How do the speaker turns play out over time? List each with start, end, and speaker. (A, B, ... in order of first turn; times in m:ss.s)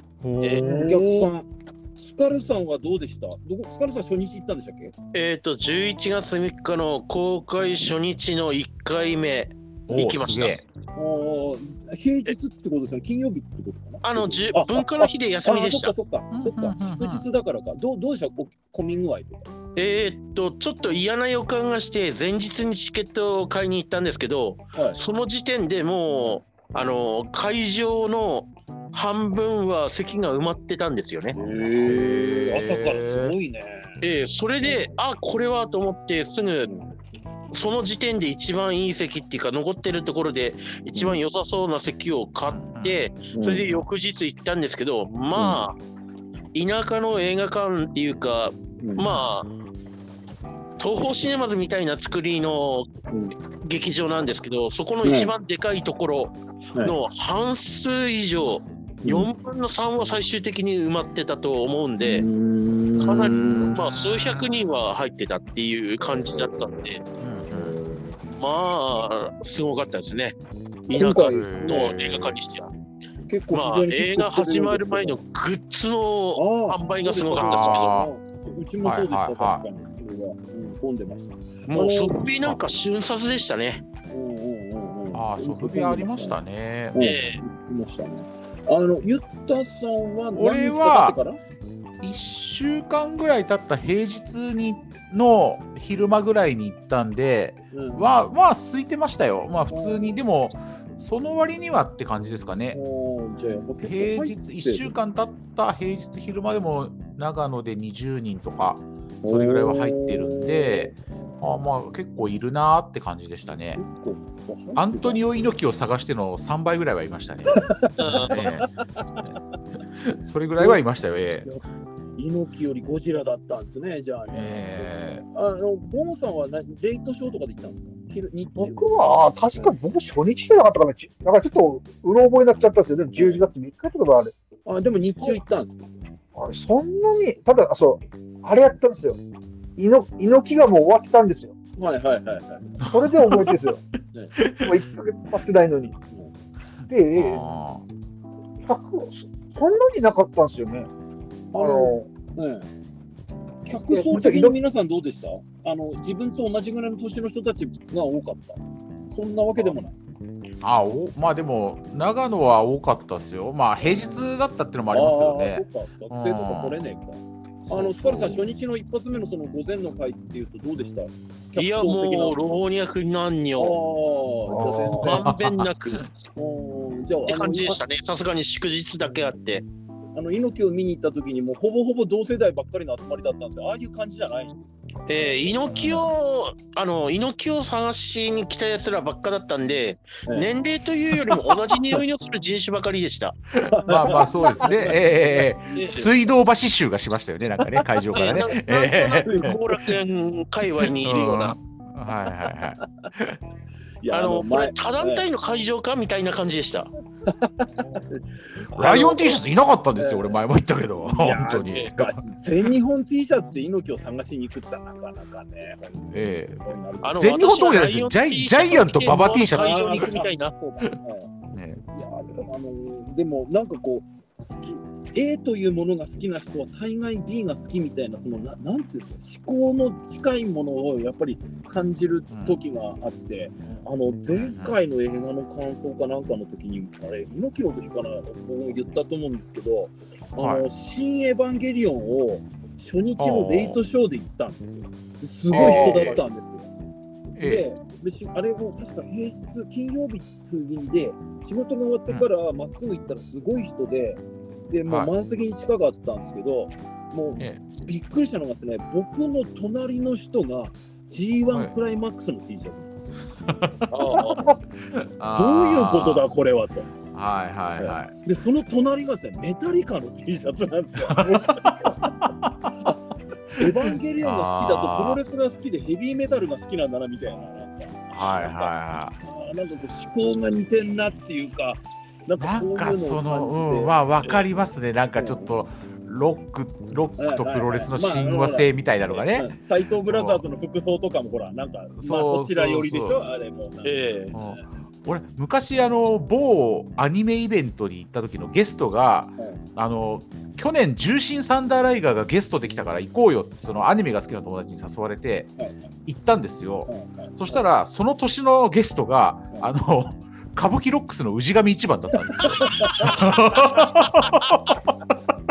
0:00.2-0:01.3 A
0:00.6-0:04.9 B
0:00.6-0:01.0 C
0:05.1-0:10.6 D
0:09.9-0:10.6 A
0:11.0-0:19.5 B
0:14.0-0:15.9 D
0:16.3-0:17.2 A
0:19.8-0:31.4 D
0:31.3-0:34.0 B
0:31.7-0:33.4 A
0:34.0-0:36.7 D
0:34.6-0:34.9 B
0:36.7-0:36.9 B
0:37.5-0:45.8 D
0:41.0-0:41.2 B
0:42.5-0:43.0 A
0:43.3-0:43.8 B
0:45.4-0:45.6 B
0:46.5-0:49.5 D
0:48.8-0:49.1 B
0:50.8-0:52.9 D
0:53.1-0:53.3 B
0:53.6-1:02.3 D
0:55.0-0:55.3 B
0:59.0-0:59.3 B
1:02.0-1:03.8 B
1:03.0-1:07.0 D
1:03.2-1:04.6 A
1:06.1-1:06.7 B
1:07.2-1:07.8 A
1:07.5-1:08.2 B
1:08.4-1:10.4 D
1:10.9-1:12.7 D
1:10.9-1:12.0 B
1:11.2-1:12.4 A
1:13.3-1:15.2 B
1:13.5-1:18.0 D
1:16.4-1:22.2 B
1:17.4-1:18.1 A
1:18.8-1:19.6 A
1:21.7-1:23.8 D
1:24.1-1:26.4 B
1:25.1-1:27.1 A
1:26.9-1:31.4 B
1:27.0-1:27.4 D
1:30.4-1:31.2 A
1:32.0-1:42.8 A
1:37.7-1:38.1 B
1:39.7-1:40.2 B
1:42.7-1:45.0 B
1:43.4-1:53.8 A
1:49.2-1:51.0 B
1:53.8-1:55.6 B
1:54.8-1:59.4 A
1:57.5-1:58.6 B
1:58.0-1:58.3 D
2:00.0-2:01.5 A
2:02.2-2:08.9 B
2:04.3-2:05.2 A
2:08.6-2:14.3 C
2:13.2-2:13.4 B
2:14.7-2:16.0 B
2:16.4-2:19.2 C
2:19.8-2:21.5 C
2:21.8-2:22.8 B
2:22.8-2:23.6 A
2:22.9-2:23.8 C
2:24.4-2:24.8 A
2:24.6-2:26.0 C
2:26.9-2:27.4 C
2:27.1-2:27.8 A
2:28.6-2:30.9 C
2:31.5-2:32.1 C
2:31.5-2:32.7 B
2:33.6-2:40.0 B
2:33.9-2:34.6 C
2:40.6-2:46.8 A
2:44.9-2:52.4 B
2:47.7-2:48.3 A
2:51.6-2:53.8 D
2:53.6-2:55.2 B
2:54.5-2:55.0 C
2:55.0-2:56.0 D
2:55.2-2:56.1 A
2:56.4-2:57.8 B
2:57.3-2:59.6 D
3:00.2-3:05.7 B
3:05.1-3:13.4 D
3:05.7-3:06.1 A
3:11.3-3:11.6 A
3:13.5-3:19.6 A
3:13.7-3:16.3 B
3:15.8-3:16.0 D
3:17.6-3:18.5 B
3:18.1-3:21.6 D
3:19.2-3:19.6 B
3:21.0-3:23.4 A
3:24.0-3:25.2 B
3:24.1-3:26.9 D
3:27.3-3:29.4 B
3:28.8-3:32.2 A
3:30.0-3:30.4 B
3:31.0-3:37.3 B
3:36.1-3:40.2 A
3:37.0-3:40.5 D
3:39.5-3:41.3 B
3:41.5-3:41.8 A
3:41.9-4:06.7 B
3:52.3-3:52.6 A
3:54.3-3:54.8 A
4:00.4-4:00.7 A
4:03.2-4:03.8 A
4:05.5-4:06.2 A
4:05.5-4:06.2 D
4:07.4-4:07.6 A
4:07.4-4:23.2 B
4:23.5-4:26.3 A
4:23.9-4:24.4 B
4:24.3-4:24.6 C
4:25.4-4:27.0 B
4:27.1-4:28.1 A
4:27.8-4:32.1 B
4:31.1-4:32.7 A
4:32.8-4:44.0 B
4:34.2-4:35.2 A
4:38.1-4:39.2 A
4:42.4-4:49.5 A
4:45.2-4:45.5 B
4:47.2-4:54.7 B
4:50.1-4:50.4 A
4:52.0-4:53.3 A
4:53.8-4:54.3 D
4:54.3-5:15.3 A
4:59.4-4:59.6 B
5:05.6-5:05.8 B
5:06.9-5:07.6 B
5:12.1-5:13.9 B